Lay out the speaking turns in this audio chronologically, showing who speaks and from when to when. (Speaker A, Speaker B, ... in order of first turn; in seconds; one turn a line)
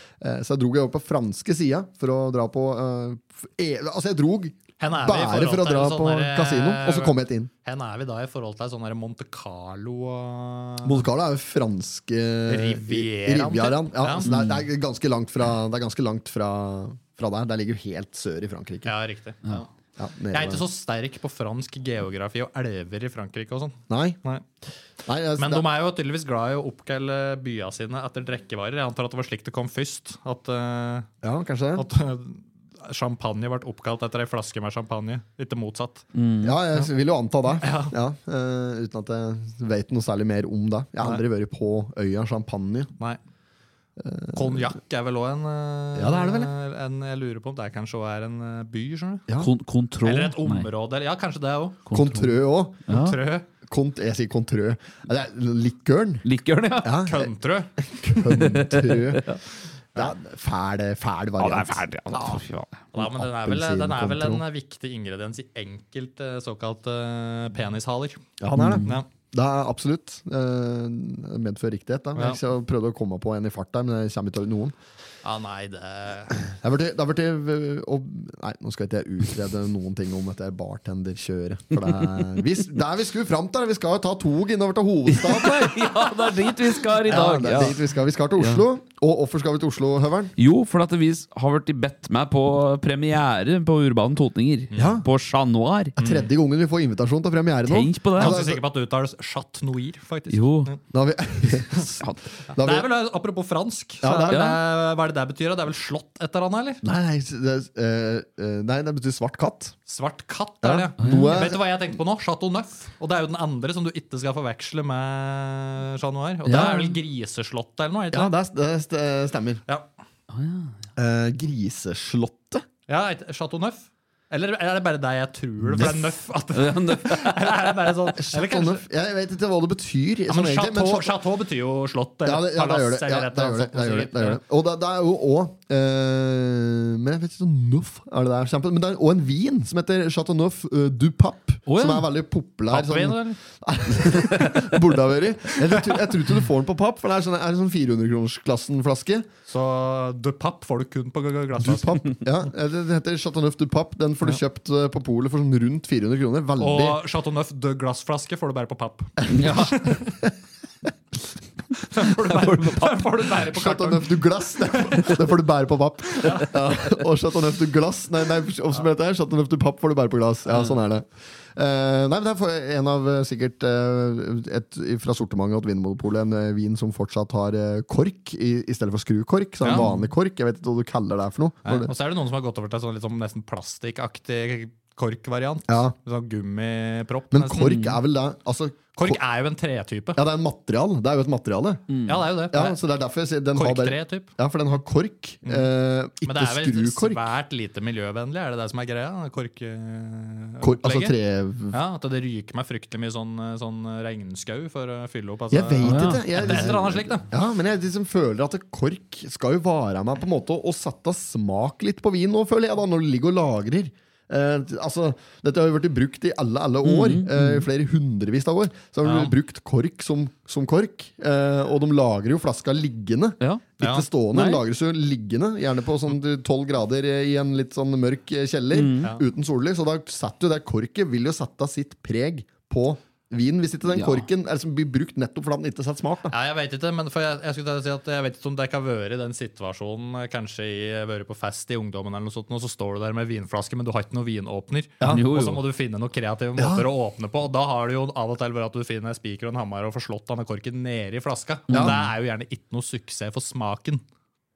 Speaker A: 0.2-7.5
Speaker B: 4.8-11.0
Speaker A: 10.8-18.9
Speaker B: 12.5-14.3
Speaker C: 14.3-14.5
Speaker B: 18.9-19.7
Speaker A: 20.0-20.7
Speaker B: 20.3-24.4
Speaker A: 23.9-24.2
Speaker A: 25.1-25.7
Speaker B: 25.4-31.1
Speaker A: 31.2-31.9
Speaker B: 31.8-36.1
Speaker C: 36.1-36.6
Speaker A: 36.4-42.9
Speaker B: 37.6-37.9
Speaker A: 44.0-44.8
Speaker B: 44.3-49.2
Speaker A: 46.0-46.5
Speaker C: 49.4-50.7
Speaker B: 50.0-51.8
Speaker C: 51.9-53.2
Speaker A: 51.9-52.8
Speaker B: 52.9-53.5
Speaker A: 53.6-56.3
Speaker C: 56.2-57.0
Speaker A: 56.8-59.2
Speaker B: 57.1-57.7
Speaker C: 58.3-59.4
Speaker A: 60.0-62.4
Speaker C: 61.4-62.8
Speaker B: 62.9-68.2
Speaker A: 62.9-64.4
Speaker A: 68.4-74.8
Speaker C: 68.5-68.9
Speaker B: 75.2-76.4
Speaker A: 76.4-90.3
Speaker C: 85.1-87.8
Speaker C: 88.4-88.6
Speaker C: 90.4-95.9
Speaker B: 94.7-95.0
Speaker A: 94.8-95.1
Speaker A: 96.0-98.6
Speaker B: 96.0-96.3
Speaker C: 97.7-98.4
Speaker B: 98.2-100.8
Speaker C: 100.3-100.7
Speaker A: 100.9-102.9
Speaker B: 102.5-106.8
Speaker A: 104.0-104.5
Speaker C: 104.3-104.6
Speaker A: 106.8-109.8
Speaker B: 109.9-118.3
Speaker A: 110.6-111.6
Speaker C: 111.0-111.3
Speaker C: 116.5-117.0
Speaker A: 116.5-116.8
Speaker A: 118.1-119.6
Speaker C: 120.3-120.7
Speaker A: 121.0-122.7
Speaker B: 122.9-128.8
Speaker A: 125.7-126.1
Speaker C: 126.5-127.6
Speaker A: 128.2-131.2
Speaker B: 130.3-134.4
Speaker A: 132.2-149.3
Speaker C: 141.7-142.1
Speaker B: 142.7-143.4
Speaker B: 149.5-152.0
Speaker A: 151.6-157.0
Speaker B: 156.6-160.0
Speaker A: 159.2-160.3
Speaker C: 159.3-159.9
Speaker B: 161.9-165.1
Speaker C: 162.2-163.2
Speaker A: 163.4-181.9
Speaker B: 166.2-166.5
Speaker C: 179.7-180.1
Speaker B: 181.7-187.8
Speaker A: 185.7-185.9
Speaker A: 187.3-189.2
Speaker C: 187.7-188.0
Speaker B: 189.0-190.2
Speaker A: 190.2-191.9
Speaker C: 191.9-192.2
Speaker B: 192.1-192.8
Speaker A: 192.5-197.2
Speaker B: 193.5-194.3
Speaker B: 196.2-201.1
Speaker A: 200.6-201.8
Speaker B: 201.7-207.3
Speaker A: 205.5-236.3
Speaker C: 205.8-206.7
Speaker C: 216.8-217.7
Speaker B: 219.0-219.3
Speaker B: 223.8-224.1
Speaker C: 224.3-224.6
Speaker C: 228.7-229.1
Speaker C: 233.9-234.2
Speaker B: 236.3-254.0
Speaker C: 245.0-245.6
Speaker A: 246.6-246.9
Speaker A: 251.7-252.0
Speaker C: 251.7-252.1